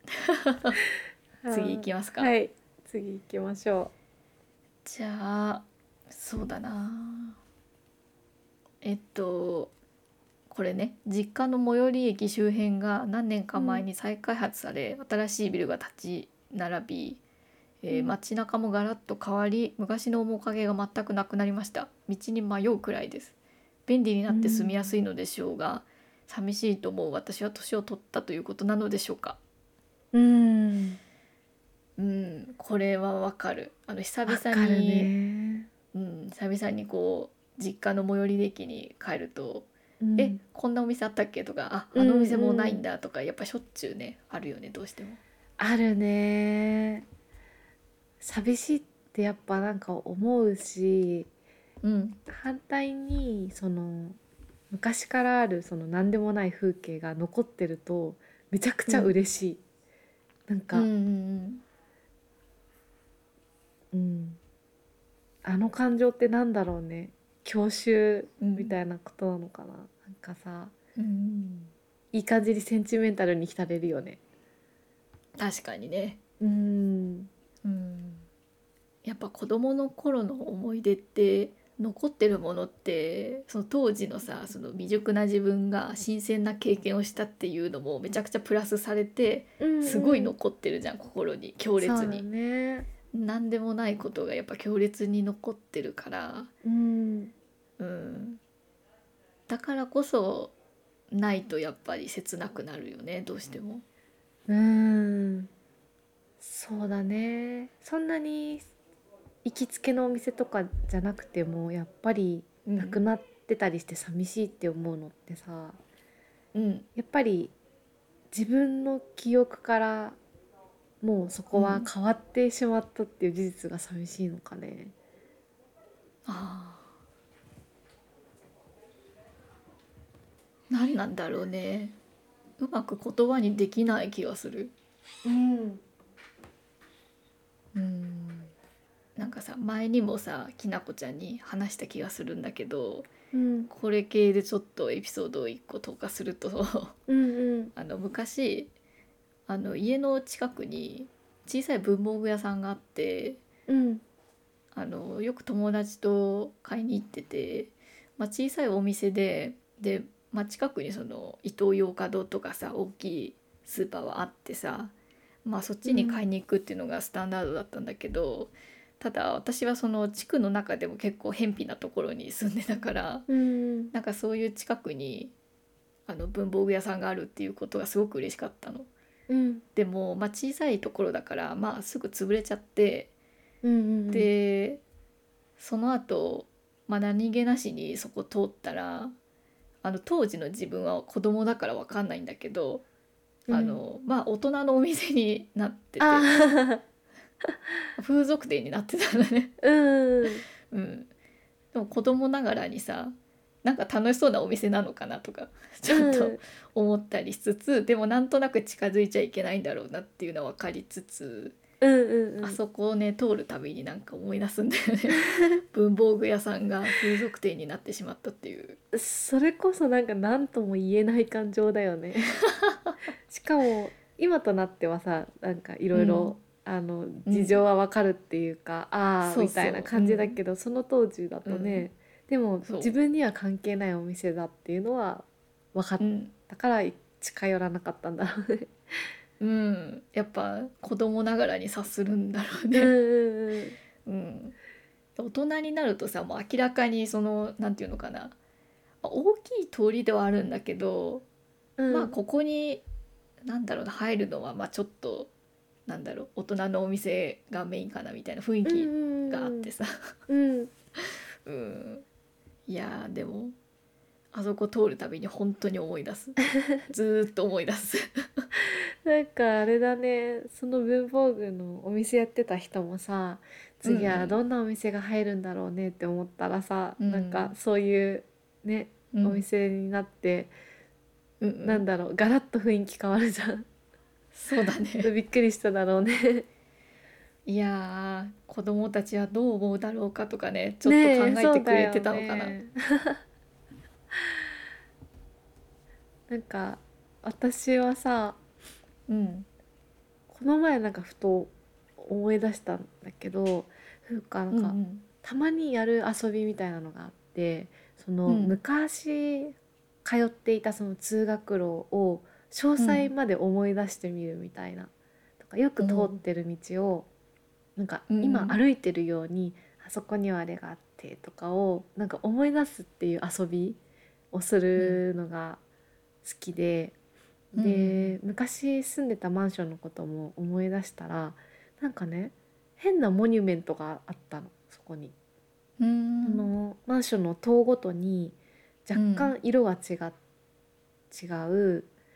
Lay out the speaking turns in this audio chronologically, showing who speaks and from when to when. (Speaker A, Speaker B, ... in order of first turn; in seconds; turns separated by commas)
Speaker A: 0.1-0.8, Speaker B: 1.4-3.9, Speaker A: 1.5-2.3, Speaker A: 4.8-7.4, Speaker A: 8.8-9.7, Speaker A: 10.5-17.2, Speaker B: 13.6-13.8, Speaker A: 17.8-23.3, Speaker A: 23.9-29.4, Speaker B: 24.3-24.9, Speaker B: 30.1-31.0, Speaker A: 32.0-35.1, Speaker B: 34.3-35.7, Speaker A: 35.9-45.2, Speaker B: 40.0-40.4, Speaker B: 41.9-42.8, Speaker B: 45.6-47.0, Speaker B: 48.2-51.3, Speaker A: 51.8-52.2, Speaker B: 52.3-54.2, Speaker B: 54.7-59.6, Speaker A: 58.9-59.1, Speaker B: 60.5-60.9, Speaker A: 60.7-61.6, Speaker B: 63.9-64.4, Speaker B: 65.4-70.7, Speaker A: 68.4-68.7, Speaker A: 71.0-71.7, Speaker B: 72.1-74.2, Speaker A: 75.4-76.2, Speaker B: 76.4-77.3, Speaker A: 77.6-78.2, Speaker A: 79.0-92.2, Speaker B: 89.6-90.3, Speaker B: 91.8-92.9, Speaker A: 93.1-96.5, Speaker B: 96.6-97.3, Speaker A: 97.8-98.4, Speaker A: 99.5-100.5, Speaker A: 101.1-103.8, Speaker B: 104.5-105.5, Speaker B: 106.4-108.7, Speaker B: 109.4-115.8, Speaker A: 112.6-113.0, Speaker A: 116.5-116.9, Speaker B: 116.9-117.5, Speaker B: 118.3-120.2, Speaker B: 121.0-124.9, Speaker A: 121.5-121.9, Speaker A: 126.2-126.9, Speaker A: 130.7-132.0, Speaker A: 132.6-134.7, Speaker B: 135.2-135.8, Speaker A: 137.7-138.5, Speaker A: 139.2-143.1, Speaker B: 143.3-143.7, Speaker A: 143.7-147.0, Speaker B: 147.1-147.7, Speaker A: 147.8-148.7, Speaker A: 149.5-153.4, Speaker B: 153.7-154.0, Speaker A: 154.7-164.9, Speaker A: 165.4-173.3, Speaker B: 165.8-166.2, Speaker B: 173.3-173.9, Speaker A: 173.9-175.3, Speaker A: 176.1-178.9, Speaker B: 179.3-179.6, Speaker A: 179.8-183.1, Speaker B: 183.6-184.3, Speaker A: 184.1-184.8, Speaker A: 185.6-189.1, Speaker A: 189.8-192.8, Speaker B: 193.5-193.8, Speaker A: 193.5-196.3, Speaker B: 196.0-196.8, Speaker A: 198.0-199.5, Speaker B: 199.6-200.4, Speaker A: 200.2-201.1, Speaker A: 201.7-211.6, Speaker B: 205.9-206.4, Speaker B: 211.8-212.6, Speaker A: 212.4-218.8, Speaker B: 218.9-222.4, Speaker A: 222.5-222.9, Speaker B: 223.3-239.1, Speaker A: 225.9-226.3, Speaker A: 227.3-227.6, Speaker A: 229.2-230.4, Speaker A: 231.4-231.9, Speaker A: 232.6-232.9, Speaker A: 236.0-236.3, Speaker A: 239.4-242.9, Speaker B: 242.7-243.8, Speaker A: 244.0-244.6, Speaker A: 245.2-248.3, Speaker A: 249.0-251.2, Speaker B: 251.8-252.2, Speaker A: 251.9-252.8, Speaker A: 253.4-255.3, Speaker A: 255.9-260.1, Speaker B: 258.6-259.7, Speaker B: 260.3-260.7, Speaker A: 261.0-262.0, Speaker A: 262.7-263.5, Speaker A: 264.3-268.4, Speaker B: 268.6-280.5, Speaker A: 273.8-274.4, Speaker A: 277.0-277.5, Speaker A: 279.1-279.4, Speaker A: 281.4-281.8, Speaker B: 281.6-283.6, Speaker A: 284.3-285.1, Speaker B: 285.0-286.4, Speaker A: 287.4-292.6, Speaker B: 290.8-293.2, Speaker B: 296.3-298.4, Speaker A: 299.1-299.5, Speaker B: 300.3-317.1, Speaker A: 304.5-305.1, Speaker A: 308.2-308.6, Speaker A: 312.8-313.1, Speaker A: 315.8-316.2, Speaker B: 317.8-323.8, Speaker A: 318.1-318.6, Speaker B: 324.3-325.6, Speaker B: 326.2-326.9, Speaker A: 327.5-328.2, Speaker B: 327.6-335.1, Speaker A: 335.8-336.4, Speaker B: 336.2-340.1, Speaker A: 338.9-339.3, Speaker B: 341.1-341.9